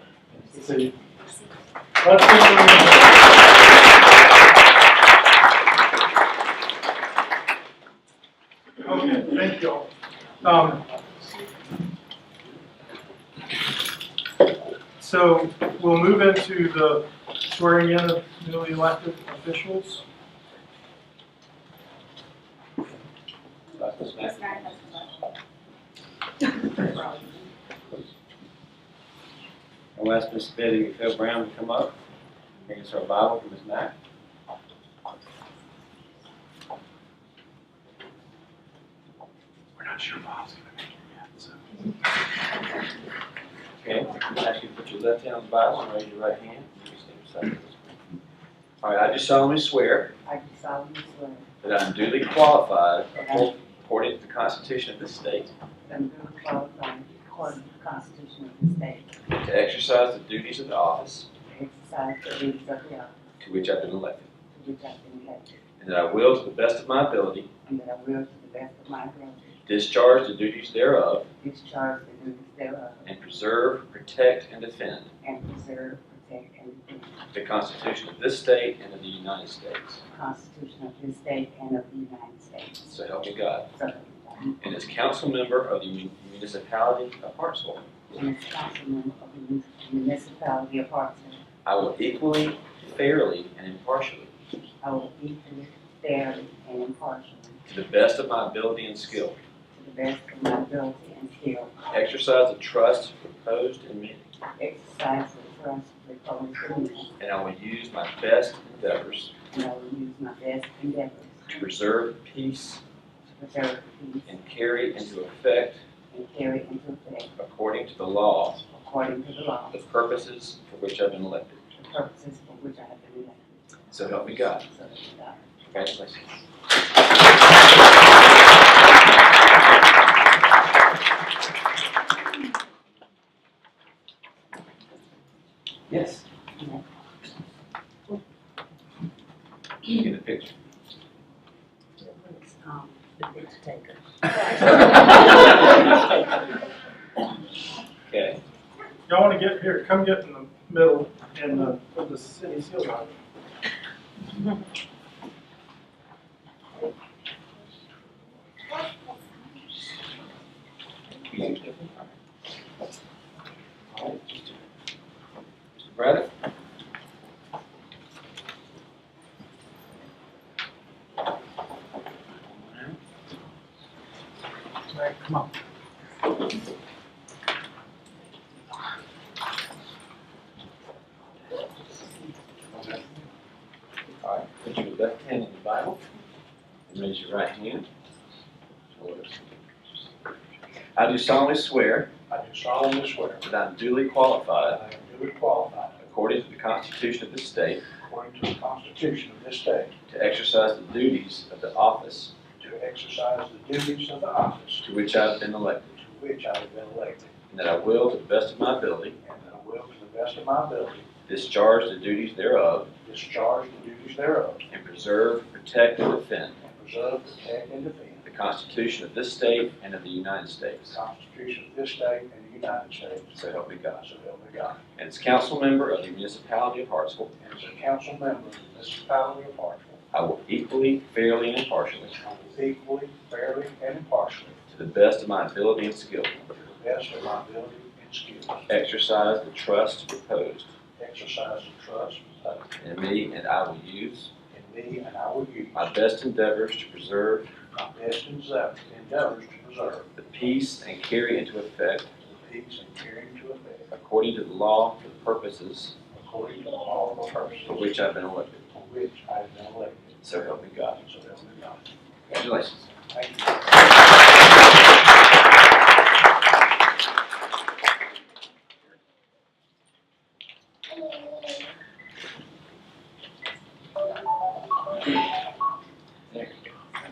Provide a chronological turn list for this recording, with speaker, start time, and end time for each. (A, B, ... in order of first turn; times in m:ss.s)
0:00.5-0:00.9 A
0:02.0-0:03.2 A
0:08.8-0:09.9 A
0:10.4-0:10.8 A
0:15.0-0:20.0 A
0:23.8-0:24.7 B
0:30.0-0:32.0 B
0:32.6-0:34.0 B
0:39.8-0:41.6 B
0:43.8-0:48.2 B
0:48.8-0:50.1 B
0:50.2-0:51.5 C
0:51.6-0:55.5 B
0:53.2-0:53.5 C
0:55.8-0:59.2 C
0:59.3-1:01.3 B
1:01.4-1:03.2 C
1:03.4-1:04.3 B
1:04.5-1:05.6 C
1:05.8-1:07.5 B
1:07.6-1:09.6 C
1:09.7-1:11.3 B
1:11.4-1:13.1 C
1:13.0-1:15.1 B
1:15.2-1:17.3 C
1:17.3-1:20.0 B
1:20.1-1:22.9 C
1:22.8-1:23.7 B
1:23.7-1:24.6 C
1:24.6-1:27.9 B
1:28.1-1:31.4 C
1:31.6-1:34.3 B
1:34.8-1:37.6 C
1:37.7-1:39.4 B
1:39.7-1:41.7 C
1:41.9-1:44.2 B
1:44.6-1:47.1 C
1:47.2-1:49.3 B
1:49.5-1:51.5 C
1:51.6-1:52.8 B
1:53.3-1:54.4 C
1:54.3-1:55.8 B
1:56.1-1:57.3 C
1:57.4-1:58.6 B
1:58.6-1:59.8 C
1:59.7-2:01.6 B
2:01.7-2:05.5 C
2:03.9-2:04.7 B
2:05.7-2:06.4 B
2:15.9-2:16.2 B
2:16.6-2:16.8 C
2:19.8-2:20.5 B
2:22.0-2:24.8 C
2:28.1-2:28.4 B
2:29.1-2:33.1 A
2:41.1-2:42.1 B
2:43.9-2:44.5 B
2:45.8-2:46.3 B
2:52.5-2:53.0 B
3:04.2-3:06.0 B
3:06.9-3:07.9 B
3:08.9-3:09.4 B
3:11.0-3:12.1 B
3:12.3-3:13.5 D
3:13.4-3:14.8 B
3:14.6-3:16.0 D
3:16.0-3:17.9 B
3:18.0-3:19.9 D
3:20.1-3:22.3 B
3:22.6-3:24.9 D
3:24.8-3:25.8 B
3:25.9-3:27.3 D
3:27.5-3:29.2 B
3:29.2-3:31.1 D
3:31.3-3:32.9 B
3:33.0-3:34.6 D
3:34.7-3:36.6 B
3:36.6-3:38.3 D
3:38.2-3:41.0 B
3:40.8-3:43.4 D
3:43.3-3:44.0 B
3:44.0-3:44.8 D
3:45.0-3:47.4 B
3:47.4-3:50.0 D
3:50.1-3:52.2 B
3:52.2-3:54.6 D
3:54.7-3:56.5 B
3:56.6-3:58.6 D
3:58.7-4:00.7 B
4:01.0-4:02.7 D
4:02.8-4:04.3 B
4:04.5-4:05.8 D
4:05.7-4:07.5 B
4:07.7-4:10.1 D
4:10.2-4:12.1 B
4:12.2-4:13.9 D
4:13.9-4:16.0 B
4:16.1-4:17.8 D
4:17.7-4:18.6 B
4:18.7-4:20.3 D
4:20.2-4:21.0 B
4:21.0-4:21.8 D
4:22.3-4:22.9 B
4:23.1-4:23.6 D